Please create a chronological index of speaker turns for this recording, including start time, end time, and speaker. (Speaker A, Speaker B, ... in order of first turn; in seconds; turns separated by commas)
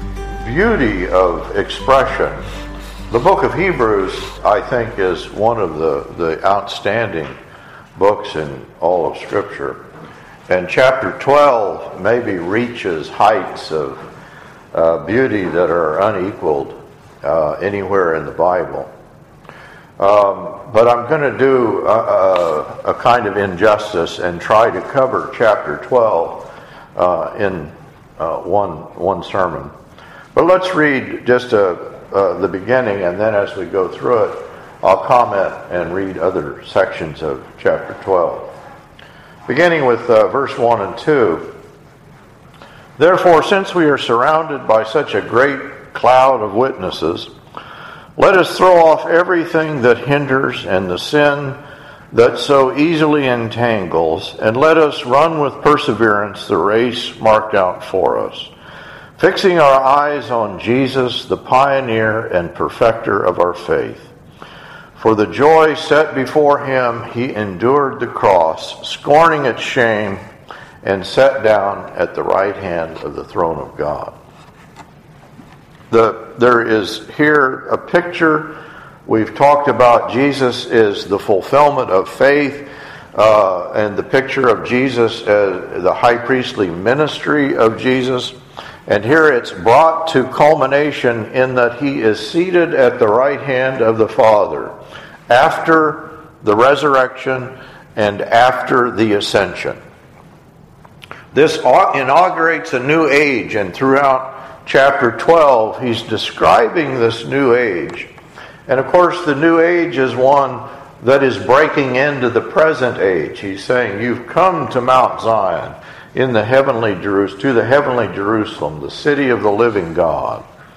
Speaker A: 0.4-2.4, Speaker A: 3.1-7.3, Speaker A: 8.0-9.8, Speaker A: 10.5-14.0, Speaker A: 14.7-18.9, Speaker A: 20.0-29.7, Speaker A: 30.3-38.5, Speaker A: 39.5-41.5, Speaker A: 43.0-47.3, Speaker A: 48.2-51.6, Speaker A: 52.1-58.5, Speaker A: 59.2-64.1, Speaker A: 65.0-70.2, Speaker A: 70.8-74.1, Speaker A: 75.9-88.3, Speaker A: 88.9-94.7, Speaker A: 95.3-99.8, Speaker A: 101.3-108.1, Speaker A: 108.7-120.4